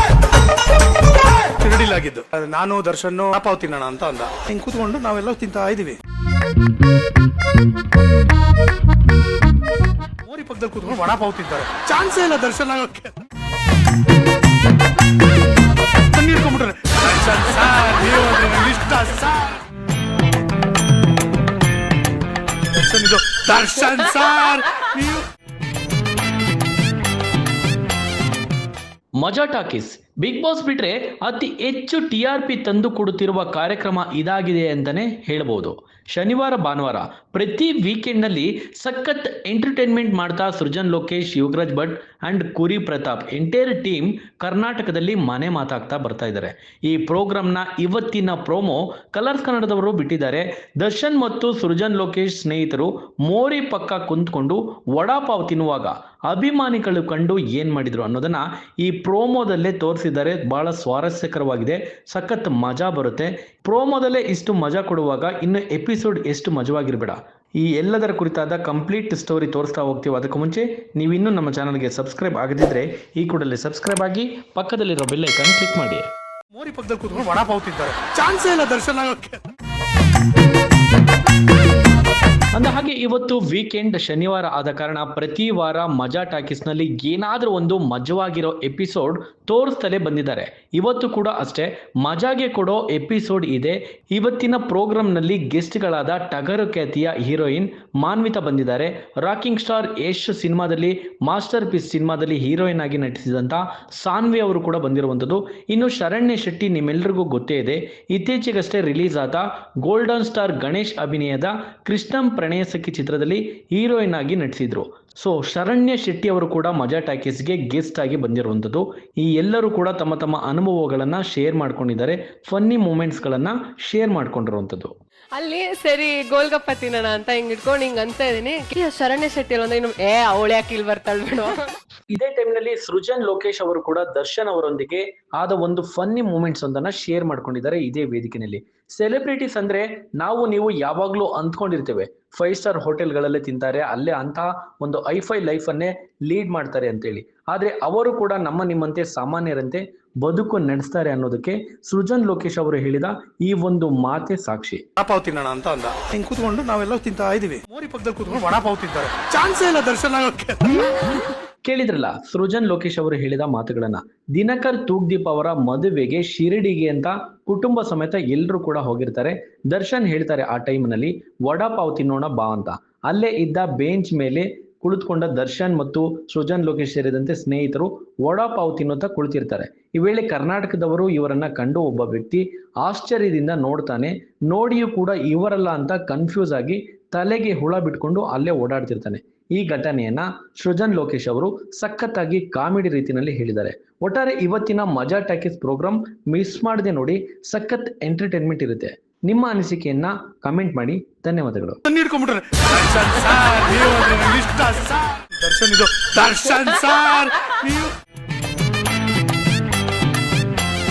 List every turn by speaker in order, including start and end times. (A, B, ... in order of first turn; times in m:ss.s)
0:01.6-0:06.0 A
0:10.2-0:13.2 A
0:16.1-0:19.6 A
0:22.7-0:25.2 A
0:29.2-1:16.1 B
1:16.5-1:19.4 A
1:22.5-2:04.9 B
2:05.4-2:11.7 C
2:12.1-2:34.8 B
2:35.0-2:41.2 A
2:41.6-3:21.8 B
3:21.9-3:27.9 A